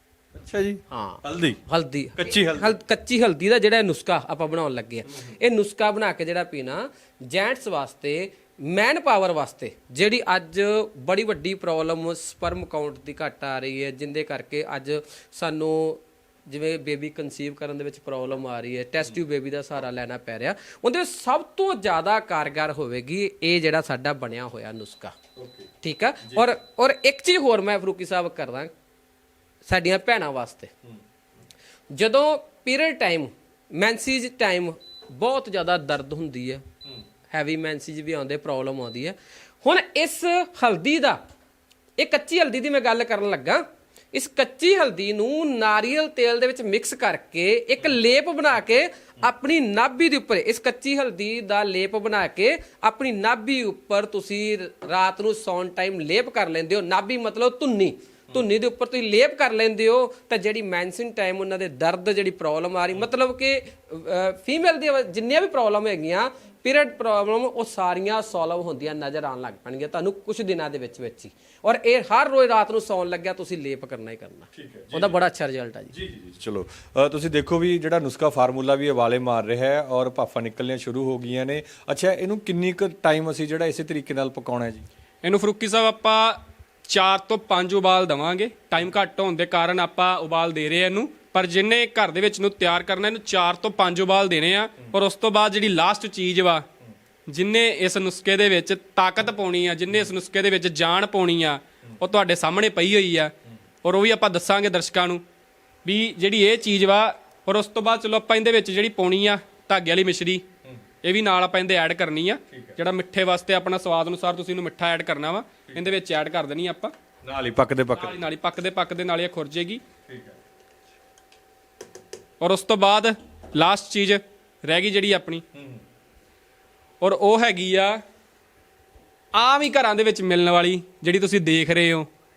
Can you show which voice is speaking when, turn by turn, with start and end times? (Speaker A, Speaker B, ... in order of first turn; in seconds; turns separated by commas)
Speaker A: 0.3-1.6, Speaker B: 0.9-25.1, Speaker A: 2.2-2.7, Speaker A: 5.1-5.3, Speaker A: 25.4-25.7, Speaker B: 25.8-28.7, Speaker A: 26.2-26.5, Speaker B: 29.6-30.7, Speaker B: 31.9-36.6, Speaker B: 37.3-41.2, Speaker B: 42.0-43.6, Speaker B: 44.1-75.9, Speaker A: 74.5-75.2, Speaker A: 75.9-84.8, Speaker C: 85.2-96.7, Speaker C: 97.3-105.2, Speaker C: 105.8-110.4, Speaker C: 111.0-116.9, Speaker A: 112.5-112.8, Speaker A: 115.7-115.9, Speaker A: 117.2-118.2, Speaker C: 117.9-119.8, Speaker A: 120.1-120.4, Speaker C: 122.4-125.4, Speaker A: 125.5-125.8, Speaker C: 127.0-128.0, Speaker C: 129.3-132.1